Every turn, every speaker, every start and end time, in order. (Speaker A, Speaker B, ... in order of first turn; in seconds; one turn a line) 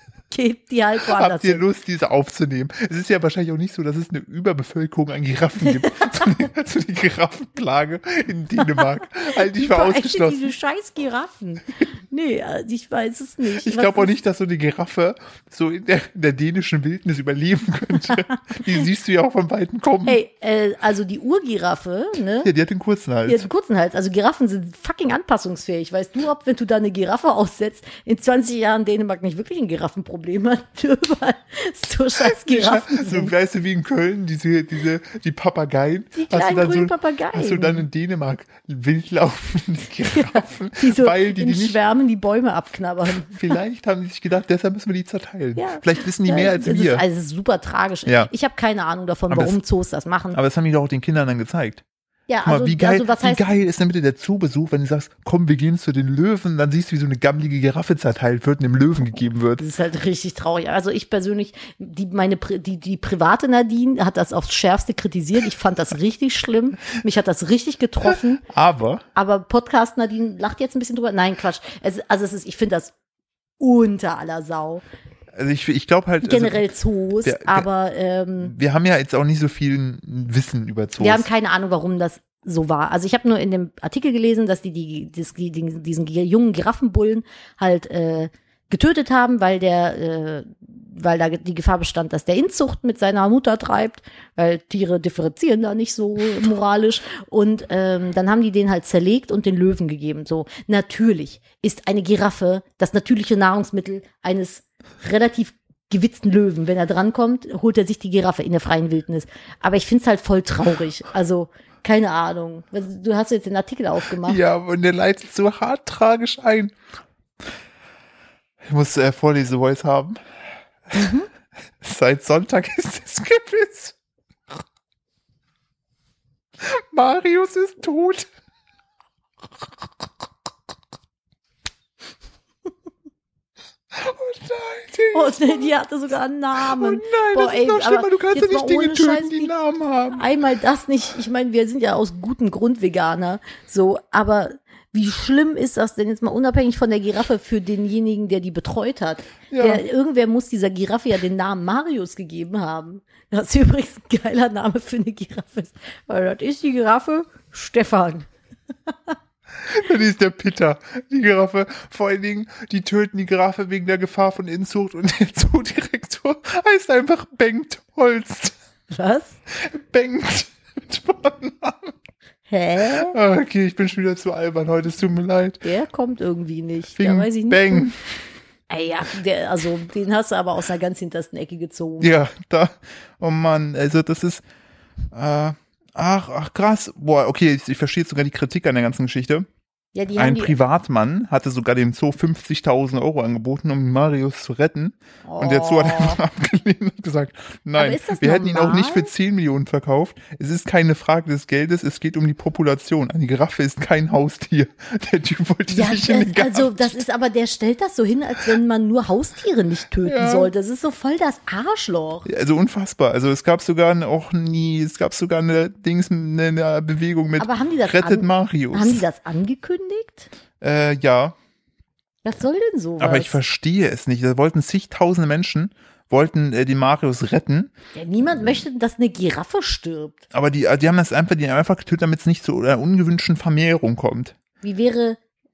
Speaker A: 0.3-1.6
Speaker B: 1.1-10.5
Speaker A: 5.6-6.3
Speaker A: 8.6-14.2
Speaker B: 13.6-20.2
Speaker A: 20.1-22.5
Speaker B: 22.4-23.5
Speaker A: 23.3-33.3
Speaker B: 32.2-41.8
Speaker A: 36.1-37.9
Speaker A: 40.1-43.5
Speaker B: 43.2-47.0
Speaker A: 45.6-50.4
Speaker B: 49.3-49.5
Speaker B: 50.3-51.8
Speaker A: 52.3-53.5
Speaker B: 52.5-59.6
Speaker A: 59.6-68.4
Speaker B: 68.4-69.0
Speaker A: 69.2-72.9
Speaker A: 73.6-74.8
Speaker B: 75.3-76.7
Speaker A: 76.2-78.5
Speaker B: 77.2-77.7
Speaker B: 78.4-81.3
Speaker A: 81.0-114.4
Speaker B: 114.2-116.8
Speaker B: 118.6-120.2
Speaker A: 120.9-121.3
Speaker B: 121.8-124.0
Speaker B: 126.6-128.3
Speaker B: 133.9-135.7
Speaker A: 135.1-139.5
Speaker B: 136.6-140.2
Speaker A: 140.1-158.3
Speaker B: 149.5-149.8
Speaker B: 159.6-168.5
Speaker A: 168.9-169.4
Speaker B: 169.5-171.9
Speaker A: 172.5-173.2
Speaker B: 172.9-175.6
Speaker A: 175.6-177.9
Speaker B: 177.0-177.9
Speaker A: 178.7-182.1
Speaker B: 182.0-184.4
Speaker B: 185.1-189.5
Speaker A: 189.9-190.6
Speaker B: 190.2-207.0
Speaker A: 195.2-196.2
Speaker A: 197.8-199.1
Speaker A: 205.7-212.3
Speaker B: 210.0-210.5
Speaker B: 212.3-219.0
Speaker A: 217.4-220.3
Speaker B: 220.6-221.4
Speaker A: 222.2-223.4
Speaker B: 223.0-227.7
Speaker A: 227.9-230.2
Speaker B: 230.3-234.3
Speaker A: 234.6-235.2